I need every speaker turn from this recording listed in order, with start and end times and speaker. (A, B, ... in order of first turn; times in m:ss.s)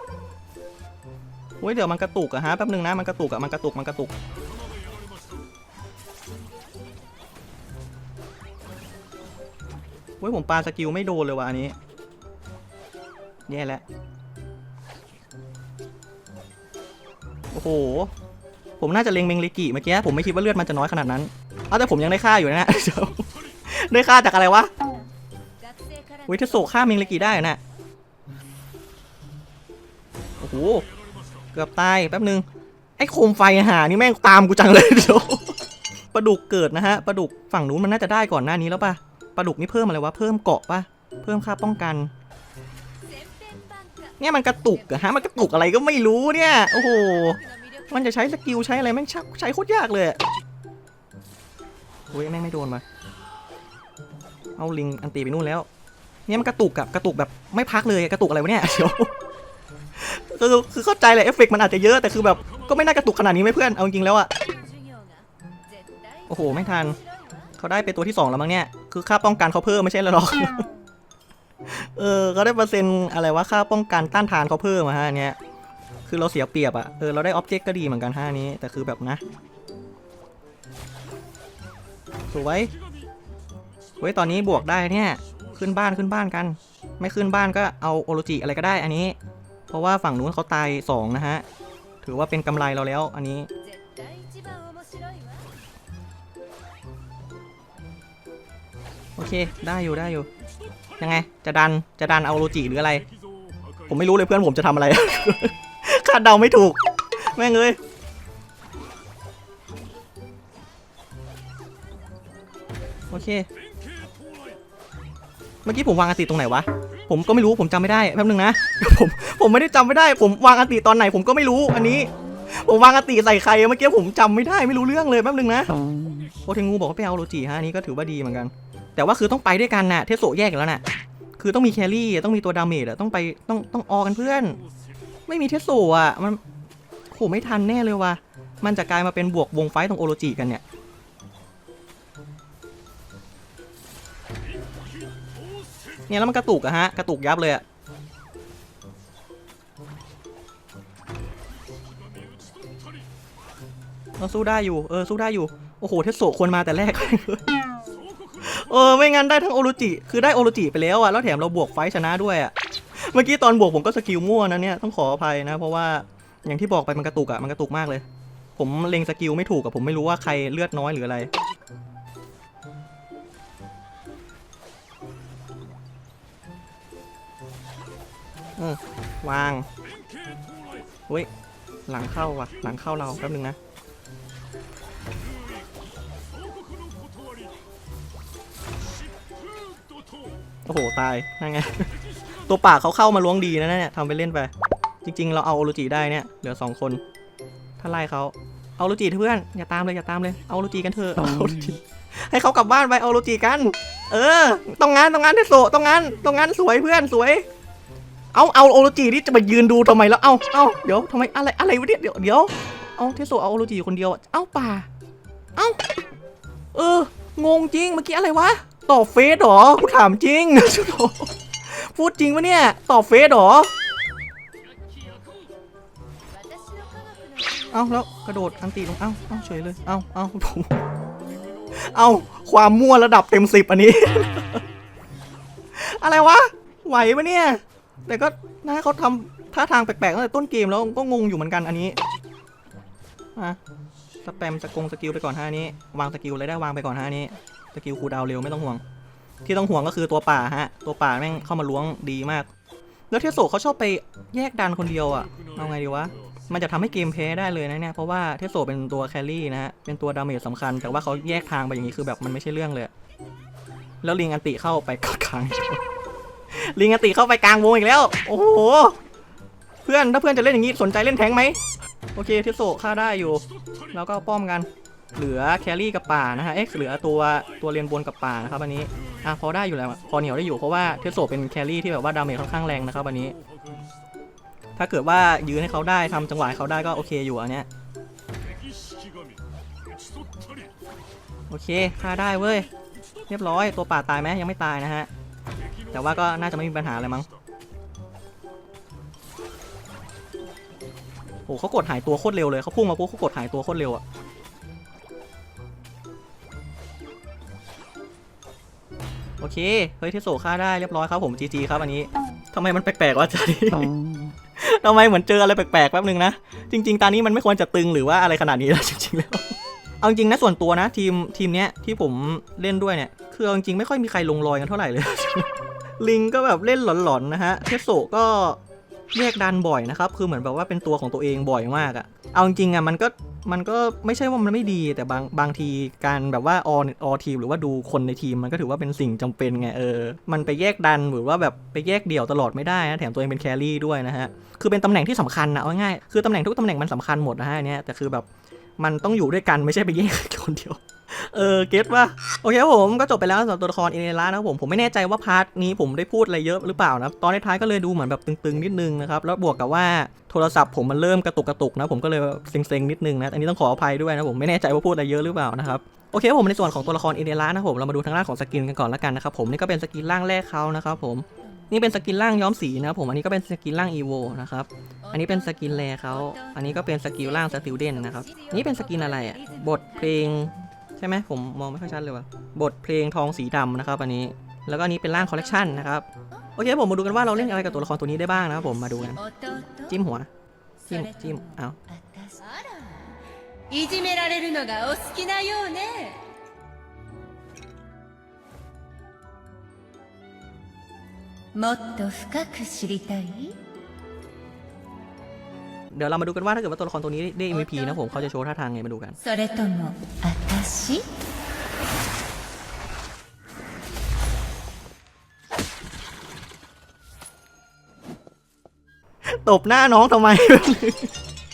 0:01.6-0:04.1 A
0:10.2-0:11.7 A
0:13.5-0:13.8 A
0:17.5-0:18.1 A
0:18.8-0:24.7 A
0:25.7-0:26.2 B
0:26.3-0:27.6 A
0:30.4-0:30.9 A
0:31.5-0:32.4 A
0:33.0-0:35.5 A
0:36.1-0:42.1 A
0:43.1-0:44.1 B
0:44.2-0:50.2 A
0:52.1-0:52.8 A
0:54.6-0:55.7 A
0:56.3-0:59.1 A
1:00.0-1:04.3 A
1:04.8-1:05.2 B
1:06.3-1:07.0 A
1:07.6-1:10.7 A
1:11.6-1:15.4 A
1:16.1-1:19.2 A
1:22.3-1:22.7 A
1:24.0-1:29.2 A
1:29.7-1:31.4 A
1:32.0-1:33.5 A
1:33.8-1:35.4 B
1:39.2-1:40.3 A
1:41.0-1:43.0 A
1:43.9-1:47.8 A
1:53.1-1:53.5 A
1:55.6-2:05.8 A
2:06.4-2:10.8 A
2:11.4-2:14.6 A
2:15.3-2:16.4 A
2:17.1-2:20.6 A
2:26.1-2:27.6 A
2:34.2-2:37.4 A
2:38.4-2:48.0 A
2:48.6-2:51.3 A
2:58.6-2:59.7 A
3:01.9-3:03.6 A
3:10.6-3:11.9 A
3:12.4-3:14.5 A
3:15.0-3:17.0 A
3:17.8-3:27.4 A
3:28.3-3:34.9 A
3:36.7-3:43.7 A
3:46.5-3:47.6 B
3:47.7-3:50.8 A
3:51.7-3:54.6 A
3:55.7-4:02.0 A
4:04.2-4:08.8 A
4:09.4-4:12.5 A
4:13.1-4:22.9 A
4:24.0-4:25.8 A
4:26.5-4:29.0 A
4:29.8-4:31.6 A
4:32.1-4:43.4 A
4:44.8-4:47.7 A
4:51.5-4:52.7 A
4:53.3-4:55.1 A
4:55.9-4:57.3 A
5:01.5-5:04.0 A
5:09.4-5:14.0 A
5:14.5-5:28.6 A
5:29.1-5:48.3 A
5:48.8-6:30.3 A
6:29.2-6:29.8 B
6:30.8-6:31.8 A
6:31.9-6:33.0 B
6:33.7-6:36.2 B
6:41.5-6:43.6 B
6:45.9-6:49.2 A
6:49.2-6:51.1 B
6:59.3-7:01.1 A